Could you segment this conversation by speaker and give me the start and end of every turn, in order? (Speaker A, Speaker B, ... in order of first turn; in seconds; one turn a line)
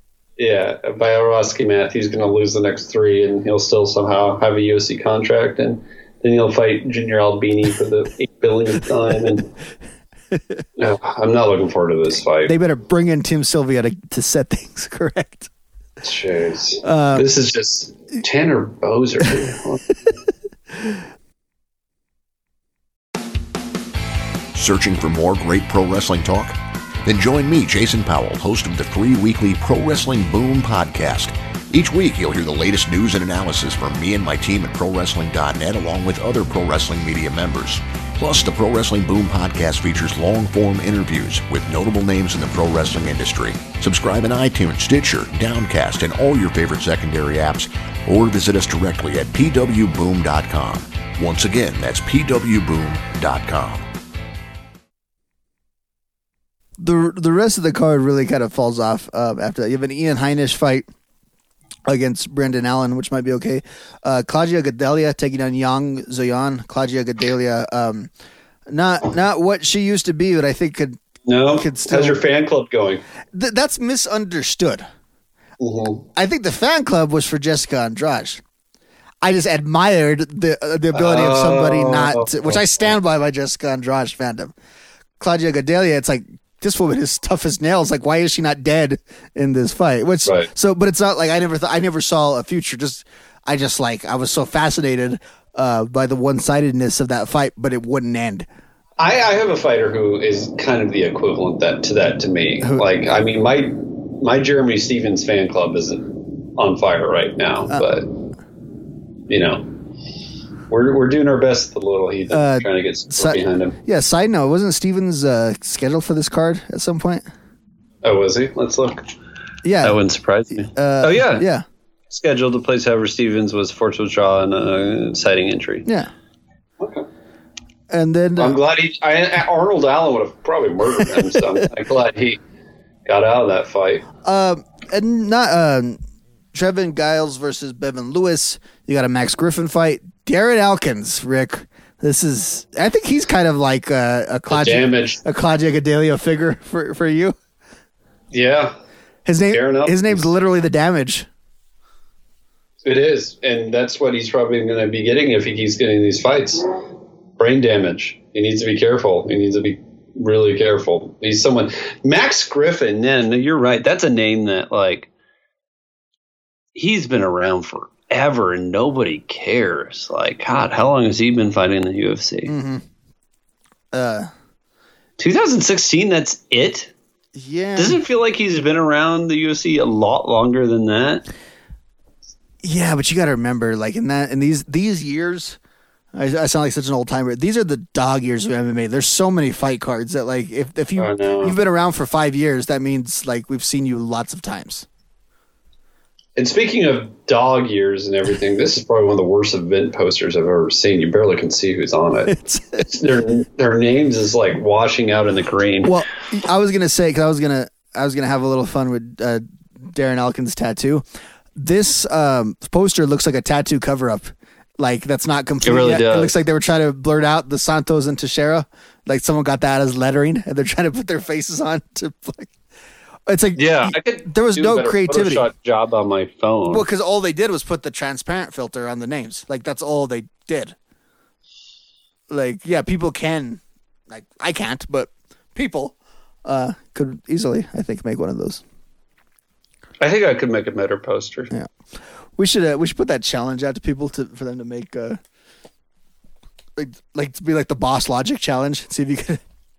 Speaker A: 0.4-9.4
Speaker B: 10.3-10.6
Speaker A: 10.8-12.5
Speaker B: 12.4-15.5
Speaker A: 16.0-19.9
Speaker B: 16.8-17.3
Speaker C: 24.5-53.9
Speaker B: 56.8-60.9
Speaker B: 61.9-68.1
Speaker B: 68.7-72.2
Speaker A: 71.3-73.0
Speaker B: 73.3-74.8
Speaker A: 75.6-76.0
Speaker B: 76.2-78.4
Speaker B: 79.2-84.5
Speaker A: 80.9-82.9
Speaker B: 85.2-98.5
Speaker A: 99.0-108.1
Speaker A: 109.3-109.7
Speaker A: 110.7-113.7
Speaker B: 112.3-117.2
Speaker A: 118.0-119.0
Speaker B: 119.6-120.0
Speaker A: 119.8-121.4
Speaker B: 120.7-121.6
Speaker A: 122.1-125.9
Speaker A: 126.8-127.0
Speaker B: 127.9-128.6
Speaker A: 128.4-132.4
Speaker B: 131.0-131.4
Speaker A: 133.1-134.1
Speaker B: 134.2-136.0
Speaker B: 136.5-147.3
Speaker A: 144.5-145.2
Speaker A: 148.3-148.7
Speaker B: 149.2-151.3
Speaker A: 149.5-150.3
Speaker A: 152.8-156.6
Speaker A: 157.4-165.1
Speaker A: 166.7-172.5
Speaker B: 172.5-172.8
Speaker B: 173.9-174.3
Speaker A: 175.2-176.9
Speaker B: 177.3-178.0
Speaker A: 177.8-181.2
Speaker B: 182.6-185.6
Speaker B: 186.1-194.9
Speaker A: 191.0-191.6
Speaker A: 196.4-205.9
Speaker B: 202.3-202.9
Speaker B: 205.8-211.0
Speaker B: 211.6-222.5
Speaker A: 215.6-216.3
Speaker B: 223.3-225.5
Speaker A: 223.6-226.9
Speaker B: 226.7-230.8
Speaker B: 232.3-238.6
Speaker A: 240.0-241.5
Speaker B: 242.4-245.2
Speaker B: 246.8-249.4